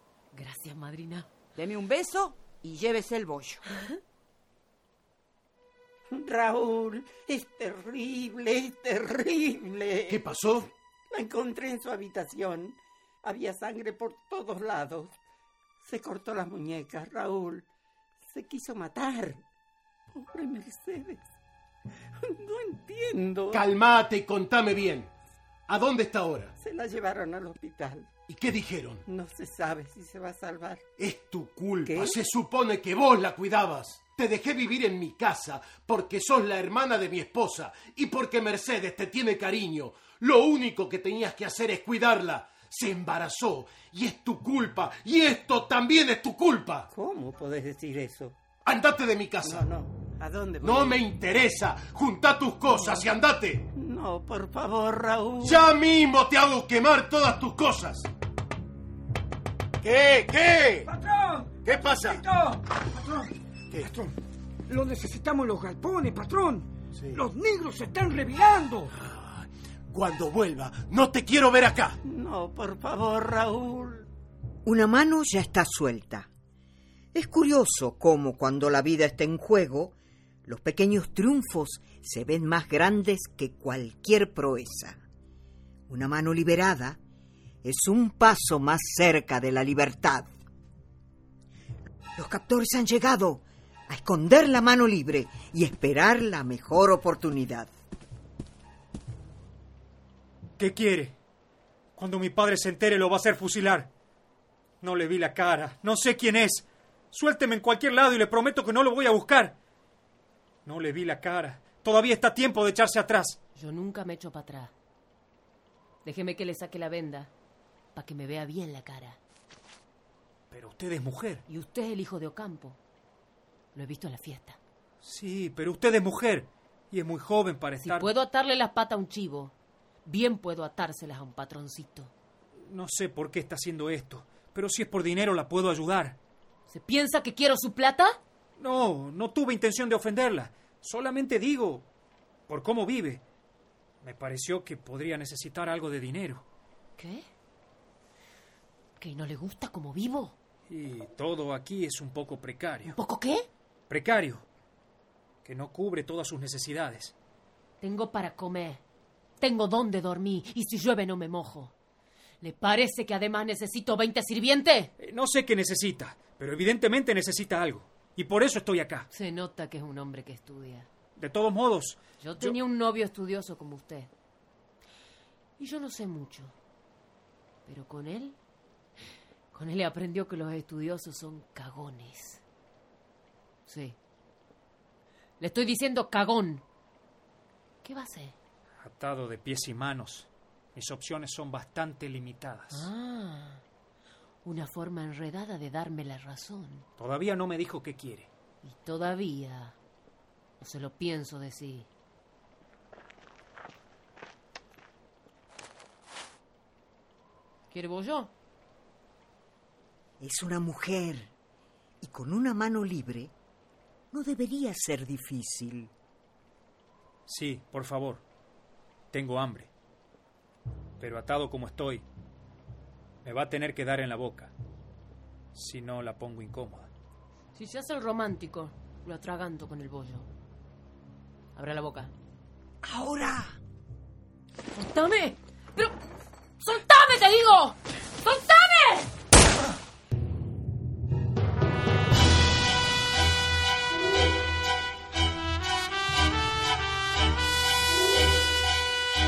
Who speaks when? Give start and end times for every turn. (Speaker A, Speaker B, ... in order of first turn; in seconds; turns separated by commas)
Speaker A: 0.3-1.3, Speaker B: 1.5-3.6, Speaker C: 6.2-9.9, Speaker D: 10.1-10.7, Speaker C: 11.1-12.8, Speaker C: 13.3-15.1, Speaker C: 16.0-17.6, Speaker C: 18.4-19.3, Speaker C: 20.3-21.1, Speaker C: 22.4-23.2, Speaker D: 23.5-25.1, Speaker D: 25.7-26.5, Speaker C: 26.6-28.0, Speaker D: 28.3-29.0, Speaker C: 29.2-30.8, Speaker D: 31.0-46.9, Speaker C: 46.9-48.3, Speaker D: 48.6-49.7, Speaker C: 49.6-51.0, Speaker D: 50.6-53.7, Speaker C: 53.8-55.4, Speaker D: 55.4-58.1, Speaker D: 59.8-60.9, Speaker D: 61.5-62.3, Speaker E: 64.7-66.6, Speaker D: 67.0-67.2, Speaker E: 67.1-68.8, Speaker D: 69.0-72.0, Speaker C: 72.1-74.1, Speaker F: 74.6-76.3, Speaker F: 77.1-79.9, Speaker F: 80.5-85.0, Speaker F: 85.9-87.0, Speaker F: 87.6-90.3, Speaker F: 92.2-97.7, Speaker G: 100.6-101.1, Speaker G: 102.0-103.9, Speaker G: 104.8-109.6, Speaker G: 110.7-113.4, Speaker A: 113.5-114.7, Speaker A: 116.0-117.3, Speaker A: 117.9-119.2, Speaker G: 120.5-121.4, Speaker A: 121.5-122.8, Speaker A: 123.7-124.6, Speaker G: 125.0-128.1, Speaker A: 127.8-129.5, Speaker A: 130.0-132.1, Speaker G: 132.6-136.2, Speaker A: 136.7-138.2, Speaker G: 138.6-141.9, Speaker G: 142.5-143.2, Speaker G: 144.0-146.4, Speaker A: 147.0-147.2, Speaker A: 149.0-150.3, Speaker G: 150.7-152.9, Speaker A: 152.9-153.5, Speaker G: 153.9-154.4, Speaker G: 155.4-157.1, Speaker A: 157.8-158.8, Speaker A: 159.4-161.7, Speaker A: 162.4-164.9, Speaker G: 165.0-169.1, Speaker A: 169.1-170.9, Speaker G: 171.2-172.6, Speaker A: 172.2-174.1, Speaker A: 175.6-176.6, Speaker A: 177.7-178.4, Speaker A: 179.5-182.4, Speaker A: 183.7-184.0, Speaker A: 185.4-186.6, Speaker A: 187.8-188.4, Speaker G: 188.8-192.9, Speaker A: 192.7-193.6, Speaker A: 194.4-196.9, Speaker G: 197.0-198.3, Speaker A: 198.6-199.8, Speaker A: 200.6-201.9, Speaker A: 207.7-208.3, Speaker F: 210.2-211.3, Speaker F: 212.0-213.3, Speaker F: 214.1-215.9, Speaker G: 217.3-218.2, Speaker G: 219.1-219.7, Speaker G: 221.0-222.0, Speaker G: 223.2-224.5, Speaker G: 225.5-226.9, Speaker A: 227.5-230.3, Speaker A: 231.5-232.1, Speaker A: 234.7-235.9, Speaker A: 236.6-239.1